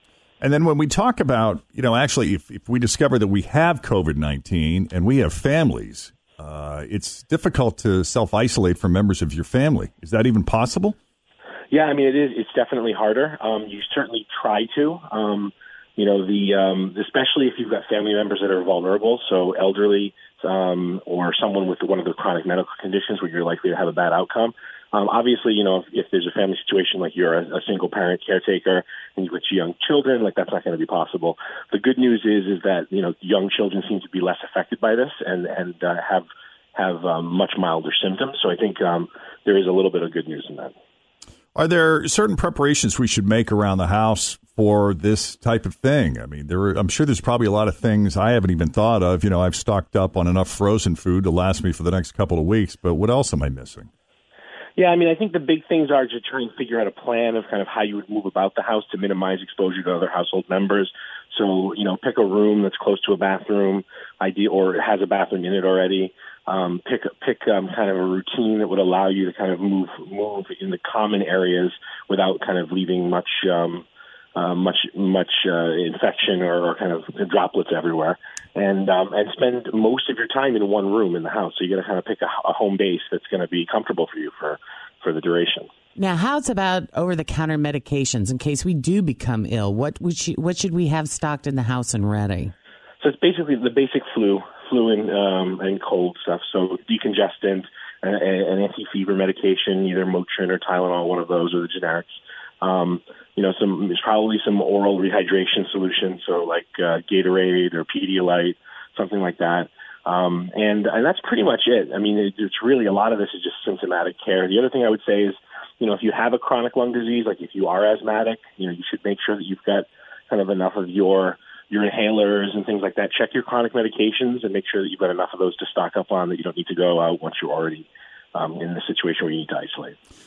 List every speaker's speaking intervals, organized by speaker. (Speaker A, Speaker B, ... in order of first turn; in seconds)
Speaker A: 0.4-10.9, 41.5-53.9
Speaker B: 11.7-40.7, 54.8-73.8, 74.3-85.7, 93.0-102.1, 102.6-129.9
Speaker C: 86.0-92.5